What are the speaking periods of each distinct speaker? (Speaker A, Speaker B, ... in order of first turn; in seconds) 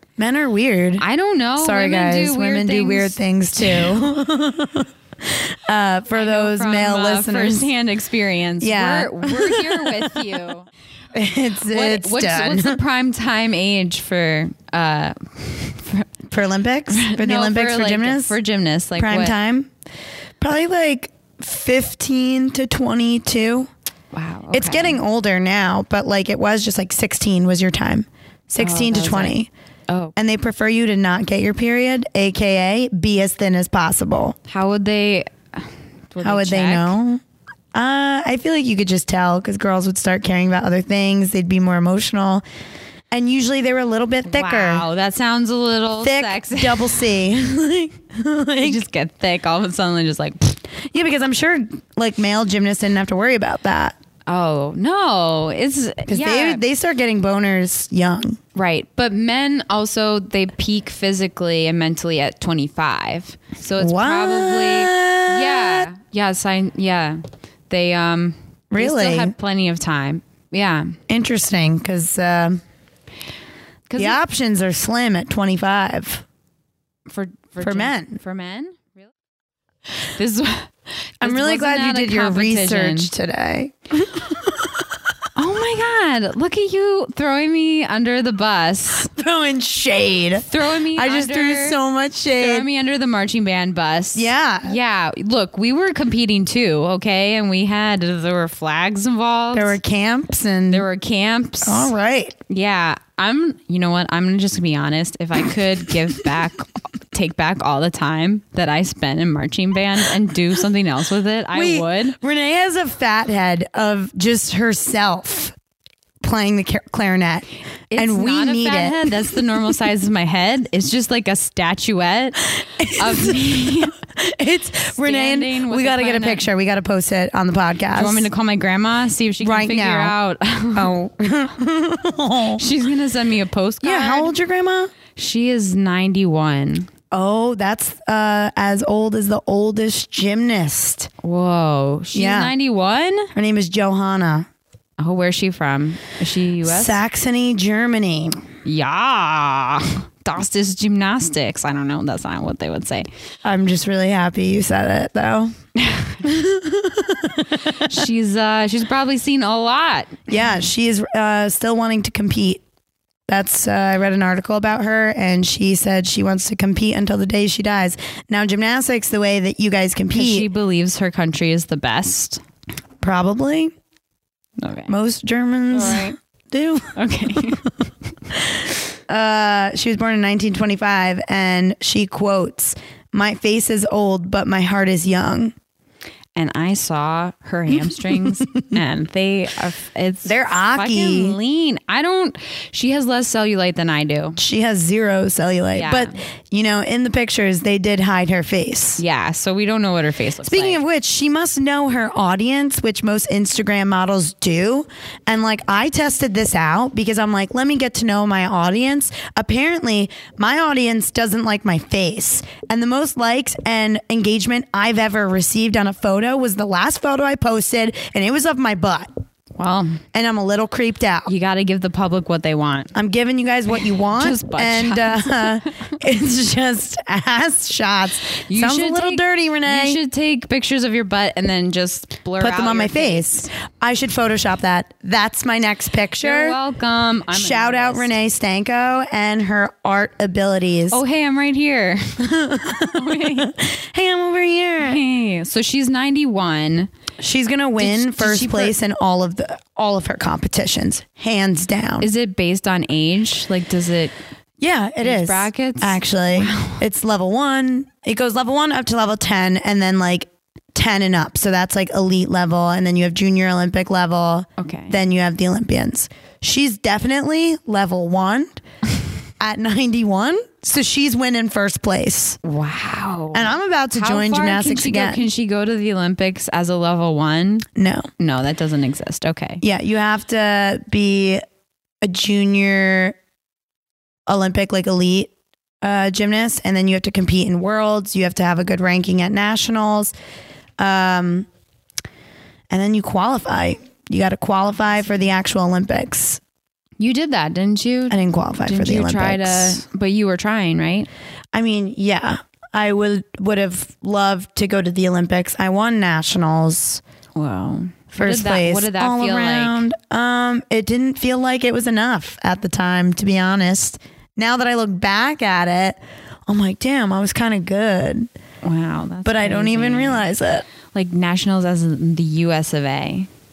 Speaker A: 0.2-1.1, 1.6-7.7, 8.6-10.2, 11.1-12.8, 16.3-18.4, 19.0-19.7, 20.4-23.7, 24.5-29.5, 30.2-34.4, 36.2-37.2, 37.7-42.4, 43.1-44.9, 46.0-48.8, 50.9-54.0, 56.1-58.4, 63.8-65.9, 68.7-69.3, 71.1-72.6, 74.0-76.2, 77.6-78.2, 81.2-84.8, 89.1-92.7, 94.2-94.8, 99.5-100.9, 101.7-102.4, 111.5-115.6, 116.2-117.5, 118.0-119.7, 122.8-128.3, 129.4-130.2, 130.8-132.6, 133.8-134.9, 137.1-141.1, 142.1-142.5, 143.3-144.5, 146.6-148.4, 153.4-155.5, 156.2-158.0, 160.3-162.6, 163.3-170.5, 173.0-173.7, 174.9-177.5, 178.4-185.5, 187.9-188.4, 190.2-191.4, 194.4-199.0, 200.4-219.1, 220.1-221.3, 222.9-230.0, 232.4-236.6, 237.3-241.0, 242.2-245.0, 247.2-252.1, 254.6-268.6, 269.4-272.4, 273.3-275.3, 277.8-278.1, 279.6-281.4, 282.0-283.2, 284.3-285.3, 285.8-290.1, 290.8-291.5, 292.7-296.4, 298.1-299.8, 301.5-307.0, 308.1-318.3, 319.2-320.7
Speaker B: 1.0-4.0, 6.2-10.7, 11.7-16.1, 16.9-19.4, 24.1-25.0, 28.6-29.4, 29.9-30.1, 34.5-37.0, 44.3-47.0, 48.6-50.6, 54.3-56.6, 58.5-71.0, 73.9-74.2, 77.1-79.1, 80.0-83.1, 85.3-89.1, 90.4-91.8, 92.4-99.8, 100.7-101.9, 102.5-112.2, 117.9-124.0, 125.0-126.5, 128.0-130.9, 132.6-134.3, 135.2-136.9, 141.2-143.3, 145.0-147.0, 148.6-153.1, 155.8-156.2, 157.6-160.2, 170.1-172.4, 174.6-174.9, 175.7-176.1, 177.0-177.7, 186.4-194.4, 195.7-196.2, 199.0-200.8, 219.6-220.0, 221.3-222.9, 224.1-225.7, 228.5-233.5, 236.2-238.2, 240.9-243.6, 244.8-246.9, 247.8-248.8, 252.0-254.2, 255.0-256.8, 264.6-265.0, 272.4-277.7, 278.2-279.6, 297.0-301.1, 307.4-309.8, 318.6-320.3, 320.9-323.3